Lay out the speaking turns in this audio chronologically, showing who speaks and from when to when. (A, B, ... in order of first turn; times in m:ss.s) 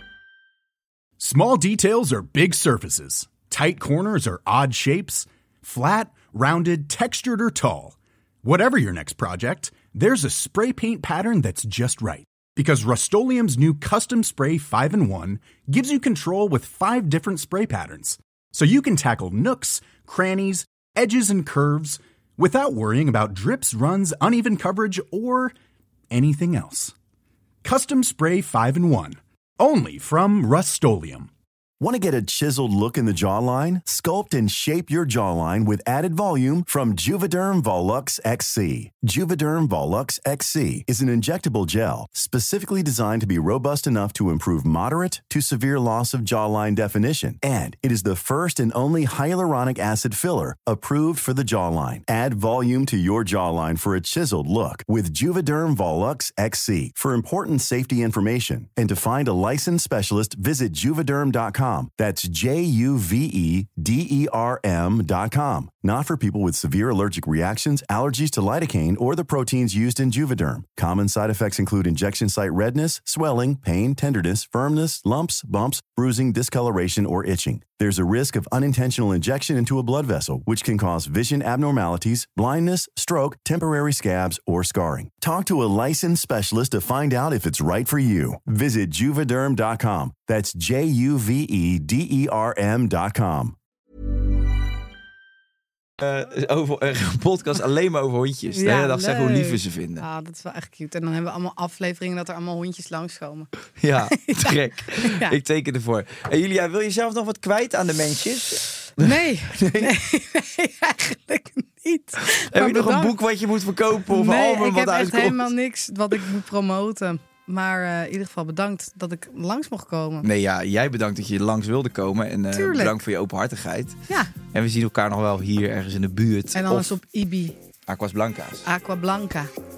0:01.2-0:25.5 A
0:26.1-0:26.9 A
0:27.6-0:31.3 A
0:31.8-1:33.6 B
1:36.0-1:40.0 C
1:38.5-1:43.5 D
1:43.8-1:49.9 C
1:44.1-1:45.3 D
1:49.0-1:53.2 D
1:52.2-1:55.5 C
1:54.1-2:00.2 D
2:00.2-2:06.9 C
2:02.5-2:03.0 D
2:06.5-2:07.6 D
2:07.9-2:08.6 C
2:08.6-2:09.5 D